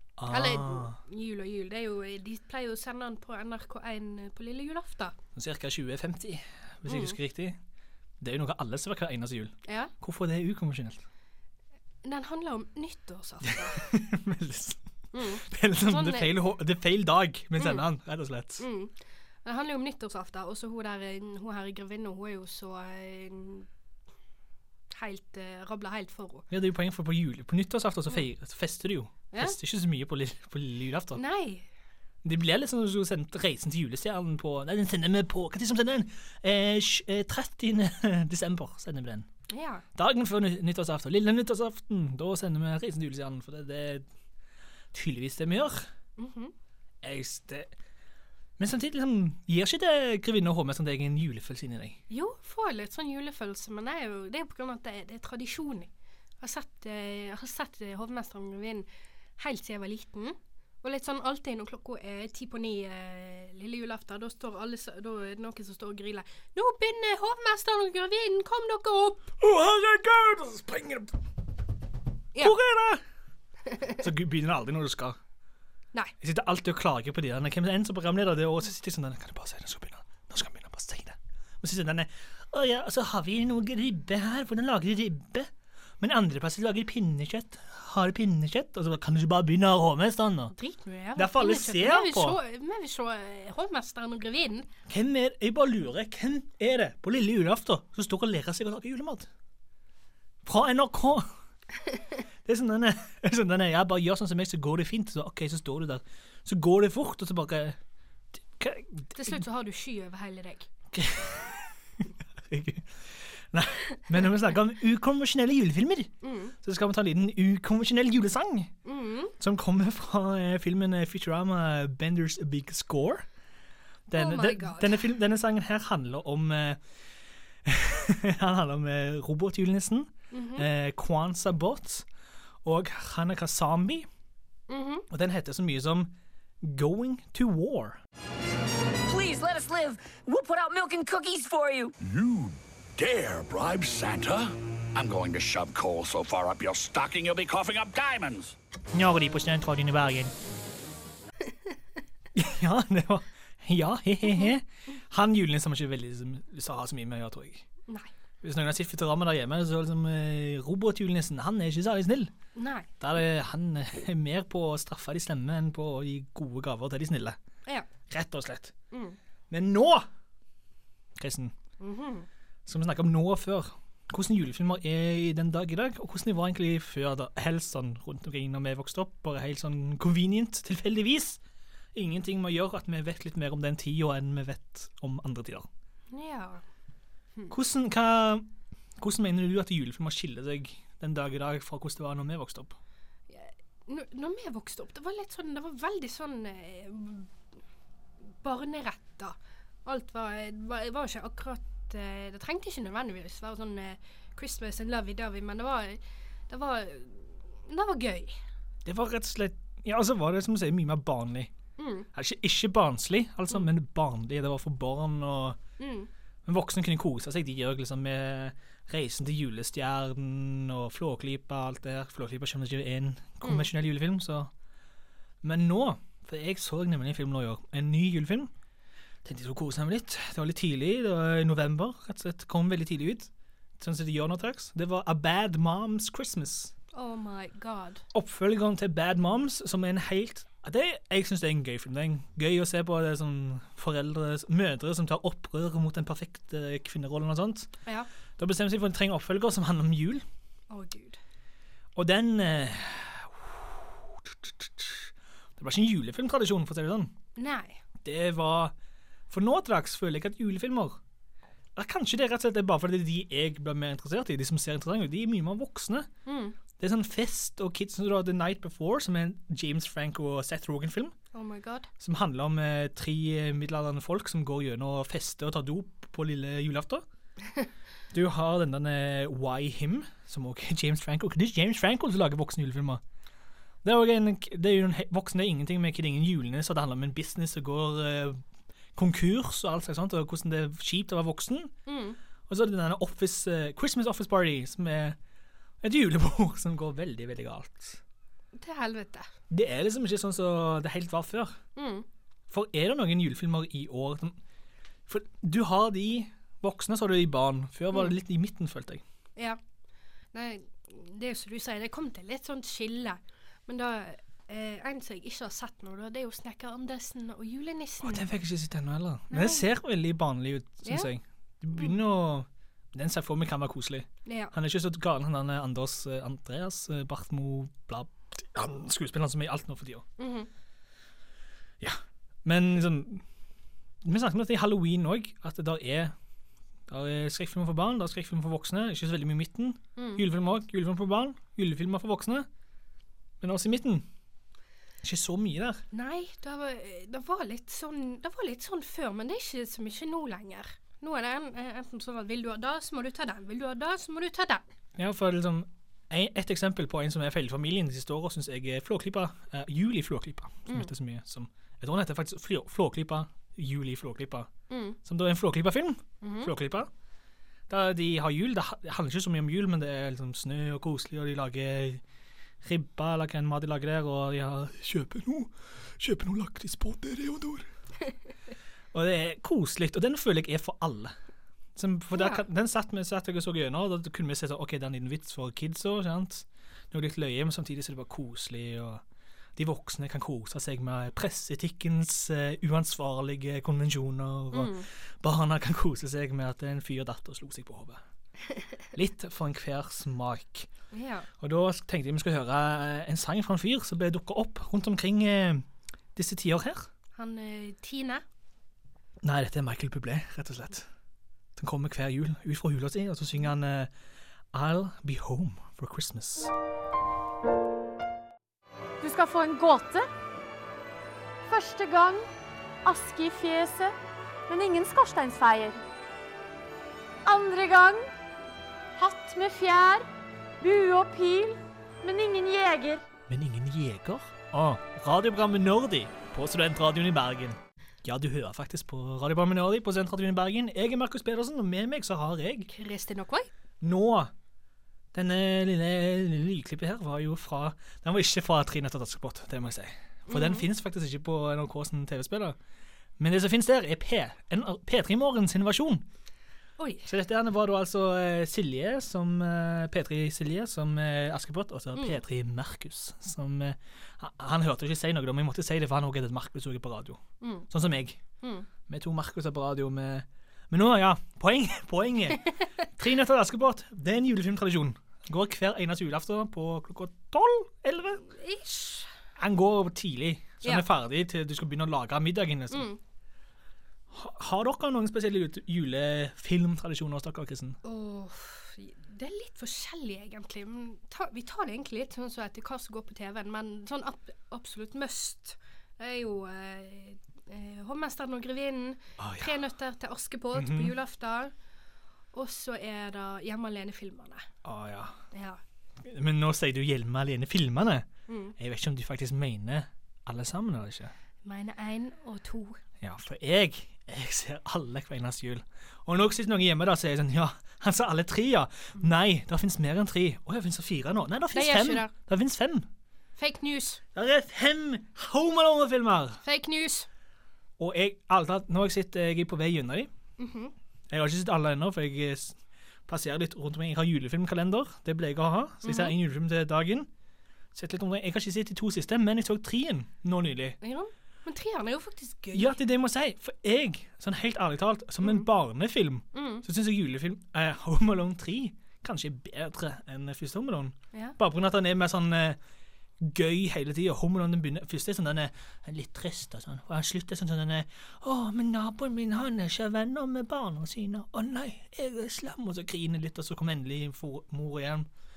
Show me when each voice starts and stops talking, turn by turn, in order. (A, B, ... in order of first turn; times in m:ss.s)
0:00.2-0:01.0 A
0:00.3-0:05.1 B
0:05.3-0:07.6 A
0:06.9-0:07.2 B
0:08.2-0:11.0 A
0:09.6-0:09.9 B
0:12.0-0:13.9 B
0:13.4-0:18.6 A
0:15.1-0:16.3 B
0:17.6-0:17.8 B
0:18.6-0:18.9 B
0:19.4-0:23.7 B
0:24.9-0:26.4 B
0:26.5-0:31.2 A
0:29.3-0:29.6 B
0:31.1-0:31.6 B
0:32.2-0:39.3 A
0:39.5-0:39.8 B
0:39.9-0:44.0 A
0:44.9-0:45.9 A
0:46.2-0:46.5 B
0:47.0-0:47.7 A
0:48.6-0:52.0 A
0:52.1-0:58.9 B
0:59.4-1:09.3 B
1:09.4-1:11.2 A
1:12.4-1:13.0 A
1:14.0-1:15.2 A
1:16.2-1:30.5 A
1:30.5-1:34.7 B
1:31.2-1:32.4 A
1:34.9-1:39.3 A
1:40.4-1:41.3 A
1:42.4-1:47.8 A
1:48.4-1:49.4 A
1:49.1-1:50.7 B
1:50.9-1:58.7 A
1:56.2-1:56.5 B
1:58.8-1:59.3 B
1:59.4-2:03.2 A
2:04.1-2:06.8 A
2:04.1-2:05.0 B
2:07.6-2:12.0 A
2:10.3-2:10.7 B
2:12.6-2:14.1 A
2:14.7-2:15.1 B
2:15.1-2:18.0 A
2:19.0-2:21.9 C
2:22.0-2:28.5 D
2:28.9-2:30.3 A
2:32.3-2:37.6 A
2:38.4-2:42.3 A
2:42.5-2:42.9 B
2:43.0-2:47.4 A
2:48.1-2:48.7 A
2:48.9-2:49.2 B
2:49.5-2:50.1 A
2:51.2-2:51.5 A
2:51.8-2:52.3 B
2:52.6-3:01.4 A
3:01.9-3:05.7 A
3:06.1-3:06.6 B
3:07.5-3:12.8 A
3:13.3-3:17.3 B
3:18.4-3:28.4 B
3:28.8-3:31.5 A
3:31.8-3:32.1 B
3:32.1-3:35.6 A
3:35.8-3:36.1 B
3:36.4-3:44.5 A
3:43.4-3:43.7 B
3:45.4-3:48.5 A
3:49.2-3:56.7 A
3:56.9-3:58.0 B
3:58.1-4:07.7 A
4:08.4-4:10.2 A
4:10.7-4:11.2 B
4:12.0-4:17.1 A
4:17.4-4:17.8 B
4:18.0-4:18.7 A
4:19.3-4:21.0 A
4:21.8-4:26.1 A
4:26.2-4:26.6 B
4:26.8-4:31.1 A
4:31.3-4:31.9 B
4:32.0-4:37.0 A
4:38.1-4:43.0 A
4:43.8-4:48.4 A
4:48.9-4:51.7 A
4:51.9-4:52.2 B
4:52.5-4:55.2 A
4:55.8-4:58.0 A
4:58.5-4:59.3 B
4:59.5-5:01.6 A
5:01.8-5:02.0 B
5:02.5-5:04.4 A
5:05.1-5:09.0 A
5:10.3-5:18.3 B
5:18.0-5:30.0 A
5:19.3-5:19.6 B
5:20.8-5:21.1 B
5:24.2-5:24.5 B
5:30.2-5:30.5 B
5:31.8-5:33.2 A
5:34.0-5:36.1 A
5:36.9-5:42.5 A
5:40.0-5:40.2 B
5:43.4-5:44.0 A
5:45.0-5:45.8 A
5:45.9-5:54.6 B
5:55.0-6:04.5 A
6:04.7-6:05.0 B
6:05.0-6:06.9 A
6:06.2-6:06.5 B
6:07.7-6:12.0 A
6:12.6-6:17.7 A
6:18.9-6:21.1 A
6:21.8-6:29.0 A
6:22.1-6:22.4 B
6:29.6-6:38.0 A
6:34.5-6:34.8 B
6:38.9-6:40.7 A
6:40.9-6:41.3 B
6:41.4-6:46.9 A
6:47.2-6:48.2 B
6:49.2-6:50.9 A
6:51.6-6:53.9 A
6:54.5-6:56.5 A
6:59.0-7:00.1 E
7:01.5-7:02.2 E
7:02.8-7:03.9 E
7:04.5-7:05.8 E
7:07.2-7:08.0 E
7:09.0-7:10.0 E
7:10.6-7:13.0 E
7:13.3-7:22.7 A
7:22.7-7:23.5 B
7:23.8-7:24.3 A
7:25.1-7:32.6 A
7:30.3-7:30.7 B
7:33.2-7:36.0 A
7:36.8-7:37.1 B
7:37.0-7:48.2 A
7:47.4-7:47.7 B
7:48.4-7:48.7 B
7:48.8-7:58.2 A
7:58.2-7:59.1 B
7:59.4-8:02.9 A
8:02.7-8:03.0 B
8:04.1-8:07.8 A
8:07.8-8:21.5 B
8:19.2-8:19.6 A
8:20.5-8:20.9 A
8:22.3-8:24.4 B
8:24.6-8:25.2 A
8:25.3-8:25.6 B
8:26.0-8:31.1 A
8:28.3-8:28.5 B
8:31.4-8:32.8 B
8:33.0-8:42.9 A
8:41.5-8:42.1 B
8:43.4-8:44.0 B
8:44.1-8:46.4 A
8:46.4-8:47.1 B
8:47.8-8:50.1 A
8:50.4-8:50.7 B
8:51.1-8:57.1 A
8:55.8-8:56.1 B
8:57.7-9:00.8 A
9:00.8-9:02.8 B
9:02.5-9:12.6 A
9:06.3-9:06.6 B
9:13.2-9:25.1 A